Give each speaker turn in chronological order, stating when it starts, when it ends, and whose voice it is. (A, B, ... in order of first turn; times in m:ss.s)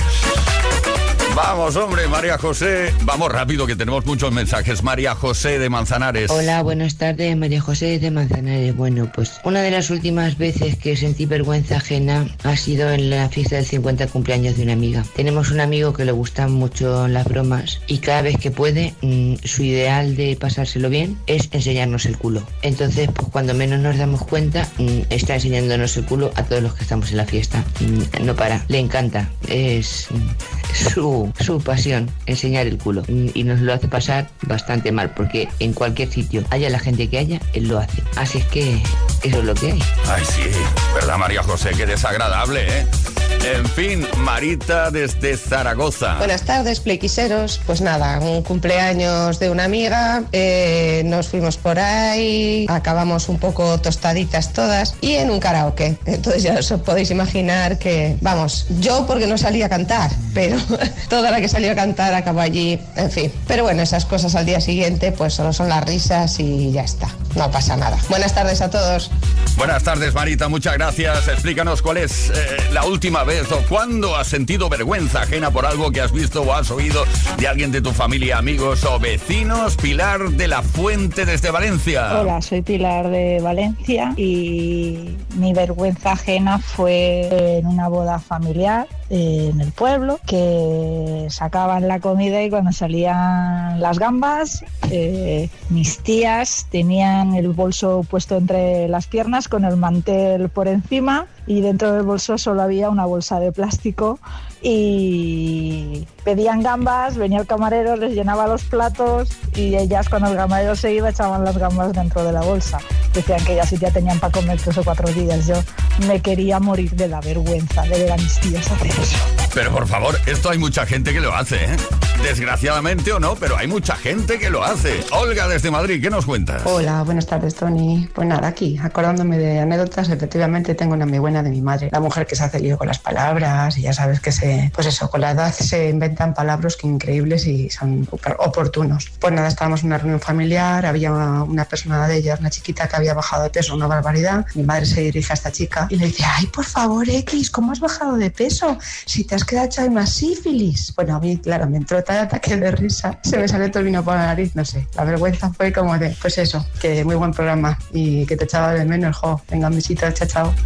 0:01.3-0:06.5 A
0:06.3-0:39.9 B
0:40.0-0:42.9 A
0:43.4-0:46.3 A
0:46.2-1:09.1 C
1:09.6-1:22.3 A
1:22.1-1:59.2 D
1:59.5-2:06.8 A
2:06.6-2:40.5 E